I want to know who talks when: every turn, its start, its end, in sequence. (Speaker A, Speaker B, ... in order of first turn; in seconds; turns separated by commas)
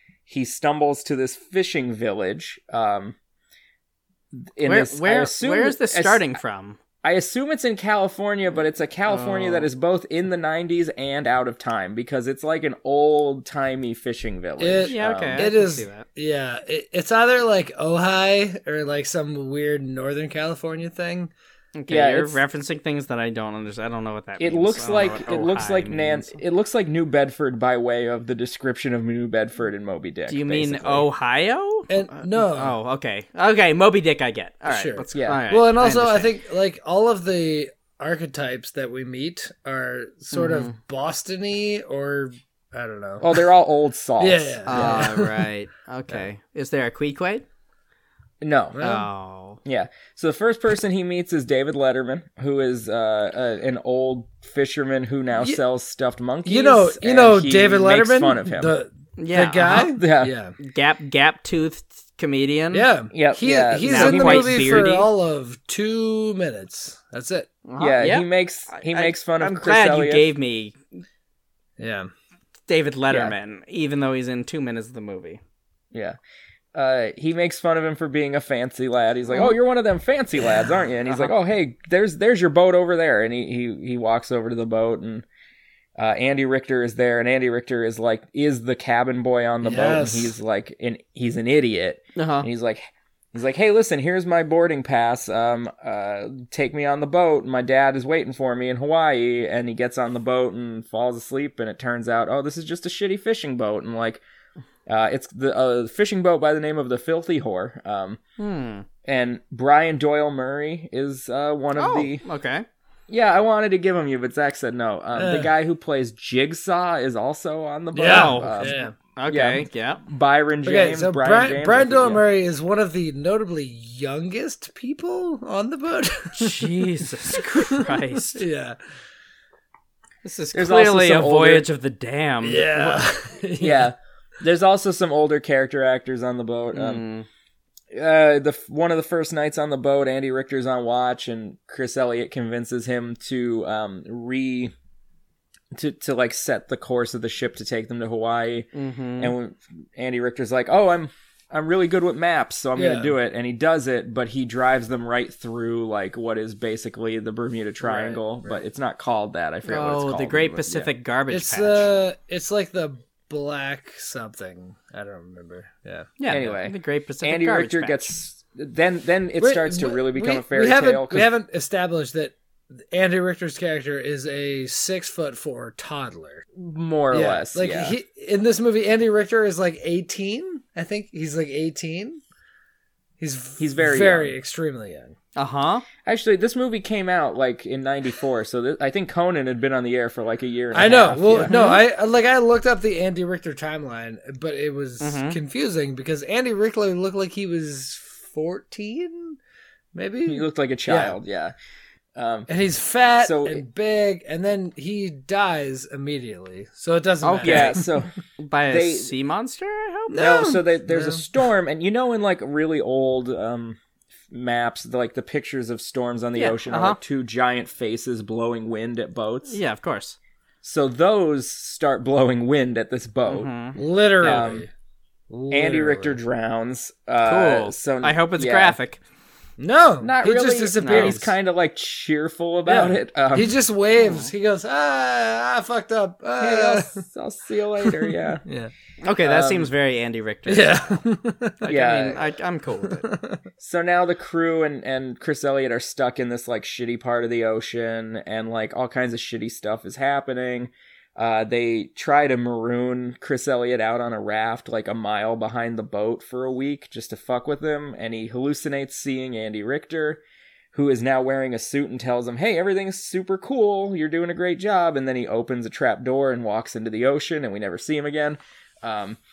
Speaker A: 0.3-3.1, Speaker A: 4.3-6.3, Speaker B: 4.6-6.8, Speaker A: 7.0-15.5, Speaker B: 9.1-9.7, Speaker C: 14.6-21.3, Speaker B: 14.9-16.0, Speaker B: 21.7-26.4, Speaker A: 21.9-22.4, Speaker A: 24.4-31.1, Speaker B: 30.3-36.3, Speaker C: 31.9-32.8, Speaker C: 34.6-43.5, Speaker A: 35.1-35.4, Speaker B: 40.3-40.7, Speaker A: 43.2-45.0, Speaker C: 44.2-45.5, Speaker B: 44.7-47.4, Speaker A: 48.4-48.8, Speaker C: 48.7-49.1, Speaker B: 48.8-49.6, Speaker A: 49.6-58.7, Speaker C: 56.4-60.5, Speaker B: 59.2-59.9, Speaker A: 59.7-60.3, Speaker B: 60.6-62.9, Speaker C: 62.7-67.5, Speaker A: 63.1-64.9, Speaker B: 63.8-65.1, Speaker B: 67.7-71.0, Speaker A: 67.8-70.3, Speaker C: 71.8-72.1, Speaker B: 72.7-75.4, Speaker A: 73.1-73.3, Speaker A: 76.7-85.2, Speaker B: 81.1-81.3, Speaker A: 86.0-104.2, Speaker C: 89.6-90.3, Speaker B: 92.2-92.5, Speaker A: 104.9-108.2, Speaker B: 108.4-108.8, Speaker A: 109.0-112.2, Speaker B: 111.8-112.7, Speaker A: 113.1-122.2, Speaker C: 115.1-115.5, Speaker C: 117.9-118.9, Speaker B: 118.0-120.0, Speaker C: 120.6-128.8, Speaker B: 126.4-128.4, Speaker B: 130.2-133.1, Speaker A: 130.5-131.7, Speaker C: 132.4-133.9, Speaker A: 133.6-137.0, Speaker B: 136.7-137.3, Speaker A: 137.9-144.7, Speaker A: 145.7-148.7, Speaker B: 148.7-149.3, Speaker A: 149.2-160.9, Speaker C: 152.8-153.1, Speaker C: 157.8-158.6, Speaker B: 159.7-161.9, Speaker C: 161.3-166.1, Speaker B: 166.2-168.1, Speaker A: 166.3-171.3, Speaker C: 169.4-176.4, Speaker A: 176.5-177.9, Speaker C: 177.1-182.2, Speaker C: 183.2-185.2, Speaker A: 183.6-184.3, Speaker B: 185.3-185.8, Speaker A: 186.0-191.5, Speaker C: 190.7-199.4, Speaker B: 191.4-191.8, Speaker B: 195.0-195.4, Speaker C: 199.9-201.2, Speaker A: 200.3-201.5, Speaker A: 202.2-202.5, Speaker C: 202.5-207.9, Speaker A: 203.2-203.6, Speaker B: 207.2-207.8, Speaker A: 207.4-208.1, Speaker B: 208.4-210.3, Speaker A: 208.7-209.1, Speaker C: 210.1-211.2, Speaker A: 210.1-213.8, Speaker A: 214.3-219.6, Speaker B: 216.3-217.0, Speaker B: 219.5-220.2, Speaker A: 220.6-223.5, Speaker B: 223.3-224.4, Speaker C: 223.7-224.7, Speaker A: 224.2-224.7, Speaker C: 225.3-226.2, Speaker A: 225.5-228.8, Speaker B: 227.2-229.0, Speaker C: 229.6-231.3, Speaker A: 230.0-233.6, Speaker B: 230.8-231.2, Speaker C: 232.7-237.0, Speaker B: 234.0-234.3, Speaker A: 236.4-238.4, Speaker C: 237.8-238.7, Speaker B: 239.0-240.9, Speaker A: 239.2-239.7, Speaker C: 240.4-241.8, Speaker B: 241.6-243.1, Speaker A: 241.7-242.2, Speaker C: 242.8-243.4, Speaker A: 243.6-260.2, Speaker A: 260.7-269.2